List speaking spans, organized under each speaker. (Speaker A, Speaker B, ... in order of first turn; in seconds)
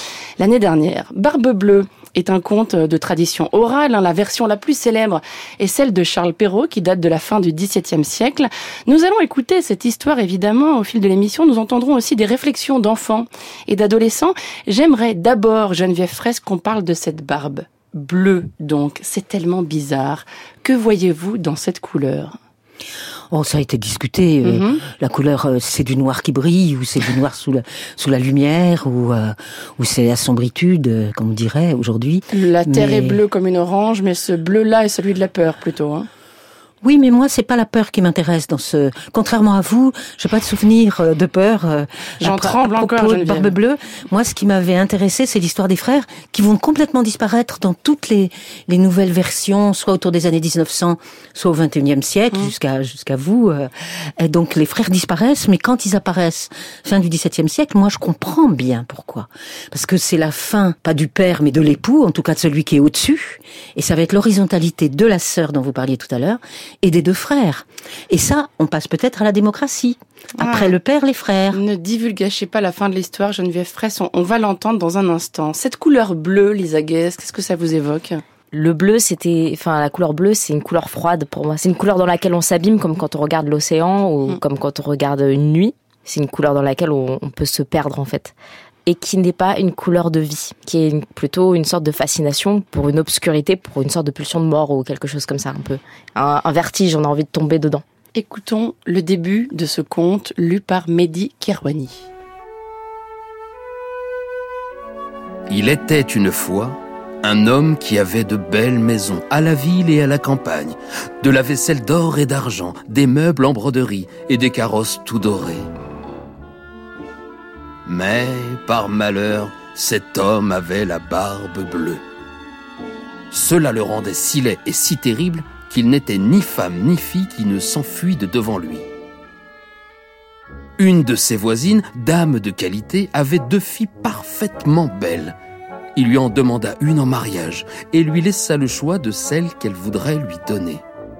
Speaker A: 0.4-22.4, 24.4-24.8, 32.3-36.1, 42.2-43.5, 70.4-70.7, 71.5-78.2, 98.1-102.0
Speaker B: 23.3-33.2, 36.8-71.6
Speaker C: 78.5-88.3, 88.8-97.8
Speaker D: 105.5-115.7, 117.8-122.0, 123.3-128.8, 130.8-135.3, 135.9-140.8